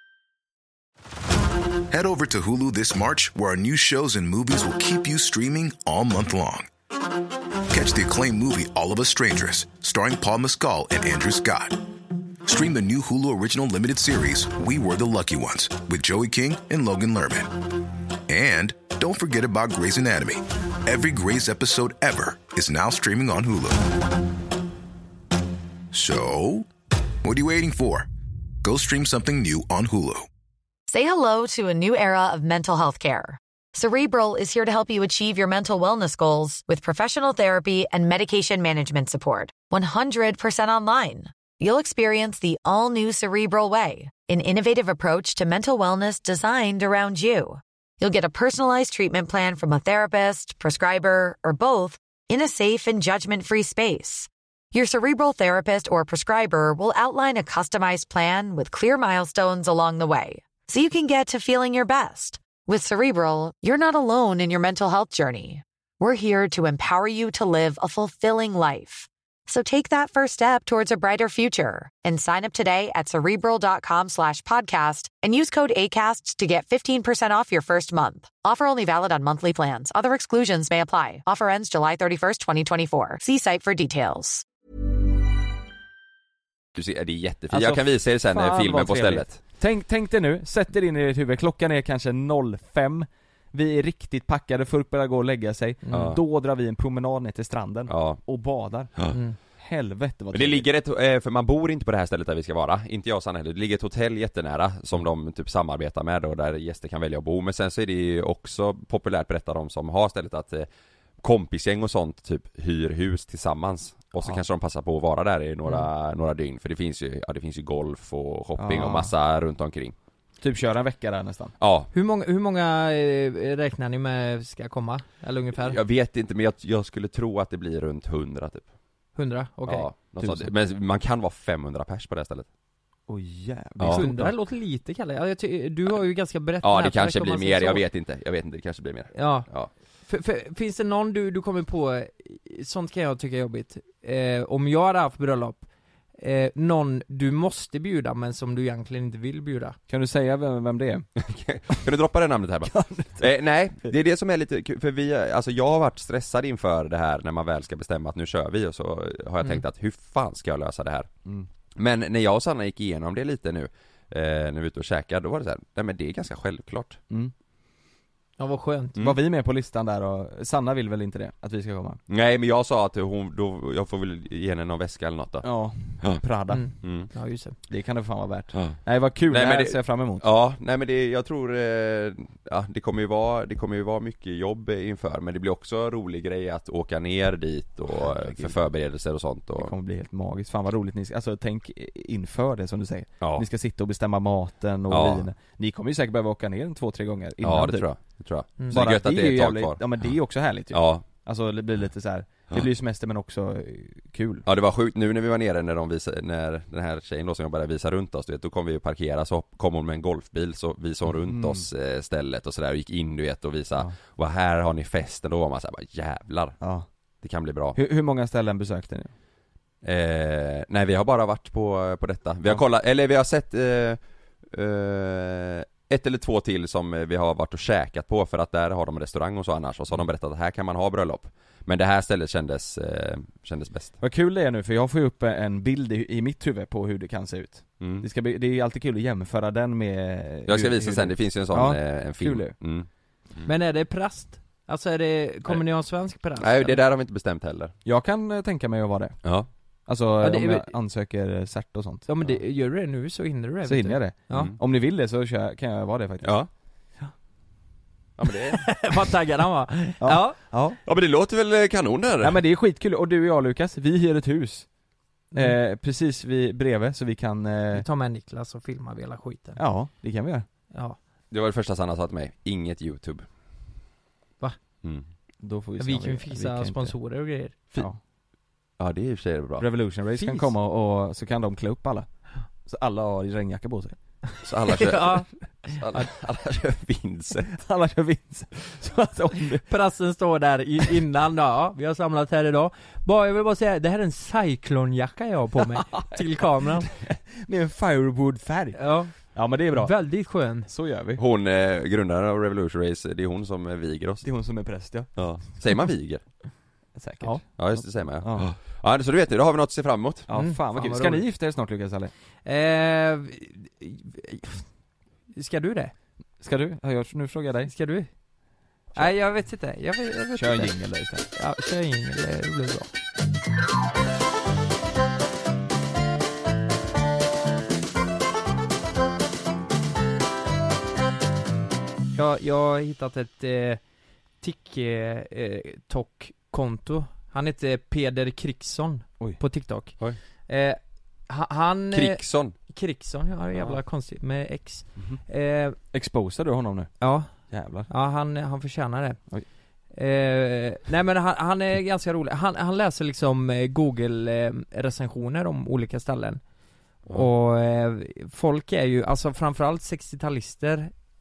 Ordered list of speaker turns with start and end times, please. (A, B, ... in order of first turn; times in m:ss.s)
0:01.9-0:06.7 A
0:07.7-0:11.8 A
0:12.4-0:17.5 A
0:18.3-0:23.8 A
0:25.9-0:26.7 A
0:27.2-0:28.1 A
0:28.6-0:30.3 A
0:30.9-1:24.4 B
1:26.8-1:29.4 C
1:27.5-1:38.9 D
1:35.8-1:36.1 E
1:35.9-1:36.2 C
1:37.9-1:38.2 C
1:39.1-1:39.4 E
1:39.6-1:40.7 D
1:40.3-1:50.7 C
1:51.2-1:59.9 C
1:58.6-1:59.1 D
2:00.4-2:01.5 D
2:01.6-2:01.9 C
2:01.9-2:05.8 E
2:05.6-2:08.6 C
2:09.2-2:09.9 E
2:09.7-2:12.5 C
2:10.2-2:10.5 D
2:13.1-2:14.4 D
2:13.8-2:14.0 C
2:13.9-2:17.8 E
2:16.6-2:19.7 C
2:19.1-2:19.5 E
2:20.0-2:25.6 E
2:26.2-2:29.8 E
2:29.9-2:31.1 D
2:31.2-2:41.1 C
2:32.6-2:33.3 D
2:41.8-2:47.0 C
2:48.4-2:49.0 E
2:49.0-2:52.0 D
2:52.1-2:55.5 C
2:55.4-2:56.6 D
2:56.5-2:57.6 E
2:56.8-2:57.1 C
2:57.7-3:00.2 D
2:58.5-3:09.7 C
3:07.9-3:08.6 D
3:09.6-3:17.9 D
3:13.2-3:13.4 C
3:14.9-3:15.2 C
3:17.4-3:20.1 C
3:18.7-3:24.4 D
3:20.7-3:21.0 C
3:24.4-3:36.6 C
3:31.1-3:31.6 D
3:36.6-3:36.8 D
3:37.2-3:37.8 C
3:37.7-3:39.1 D
3:39.8-3:54.0 C
3:54.0-4:02.6 D
3:57.8-3:58.0 C
4:00.5-4:03.5 C
4:03.4-4:06.8 E
4:06.4-4:07.7 C
4:07.8-4:09.2 D
4:09.9-4:12.1 D
4:10.2-4:10.7 E
4:12.1-4:14.5 E
4:13.6-4:16.4 D
4:16.2-4:16.5 C
4:18.2-4:18.7 C
4:18.6-4:20.4 E
4:20.0-4:20.8 D
4:20.8-4:22.4 C
4:22.2-4:24.7 D
4:25.3-4:27.8 D
4:27.7-4:29.6 E
4:29.6-4:30.4 D
4:31.3-4:33.2 C
4:35.4-4:36.9 D
4:35.8-4:37.6 E
4:38.8-4:39.6 C
4:39.6-4:42.1 D
4:40.2-4:40.5 E
4:42.6-4:44.0 D
4:44.4-4:47.5 C
4:44.7-4:46.0 E
4:47.5-4:49.6 D
4:49.7-4:56.9 E
4:55.8-5:01.2 D
4:58.8-5:00.7 E
5:01.2-5:04.3 C
5:04.2-5:05.2 D
5:05.1-5:06.2 C
5:07.0-5:08.5 D
5:07.6-5:10.3 C
5:10.3-5:12.1 D
5:10.3-5:11.2 E
5:12.4-5:14.6 E
5:15.3-5:15.9 E
5:16.4-5:17.7 D
5:17.7-5:18.1 E
5:18.9-5:20.7 E
5:20.3-5:21.3 D
5:21.3-5:22.9 E
5:32.1-5:33.8 E
5:34.4-5:45.8 E
5:41.9-5:42.5 C
5:45.0-5:45.2 D
5:45.9-5:47.9 D
5:47.0-5:47.3 E
5:47.9-5:49.2 E
5:49.9-5:56.4 E
5:57.0-6:00.9 E